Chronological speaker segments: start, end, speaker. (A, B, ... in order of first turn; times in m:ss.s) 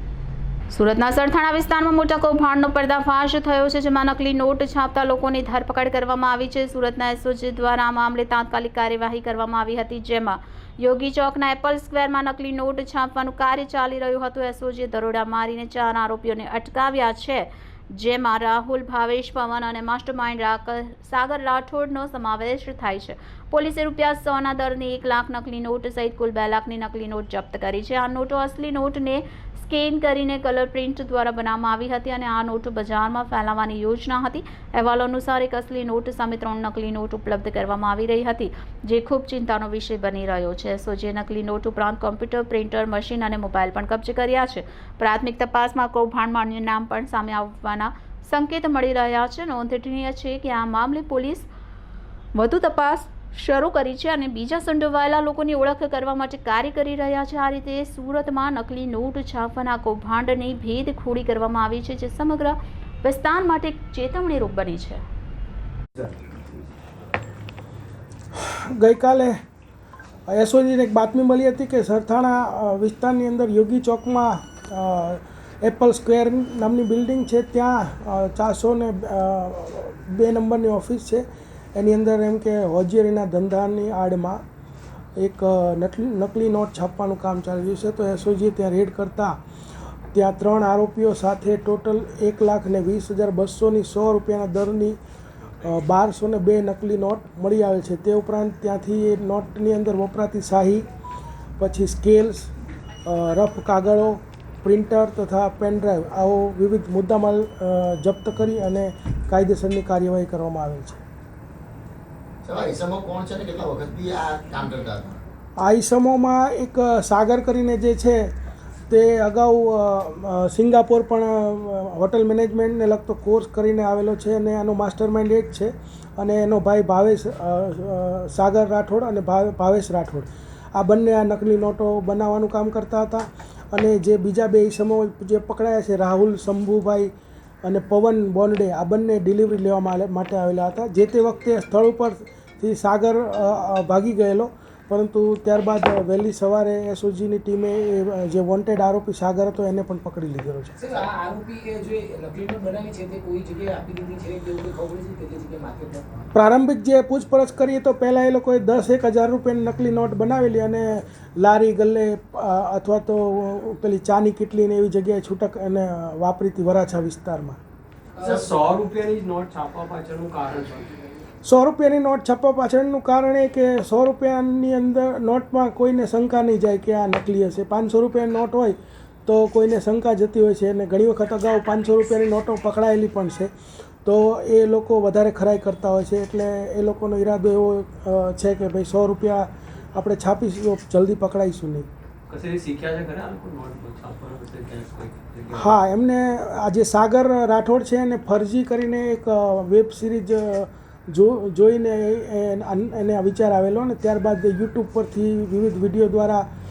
0:00.7-0:51.5 A
0:52.4-1:05.0 A
1:08.3-1:09.4 B
1:10.3-1:24.4 B
1:25.2-1:29.4 B
1:30.1-1:35.0 B
1:35.6-1:40.9 B
1:41.6-1:42.5 B
1:43.1-1:51.0 B
1:52.4-1:55.2 C
1:55.6-1:58.3 B
1:58.9-2:17.1 B
2:17.6-2:30.8 B
2:30.8-2:36.0 D
2:36.4-2:47.6 B
2:48.2-2:51.0 E
2:51.4-3:03.5 B
3:04.0-3:11.9 B
3:12.3-3:15.8 E
3:15.5-3:26.5 B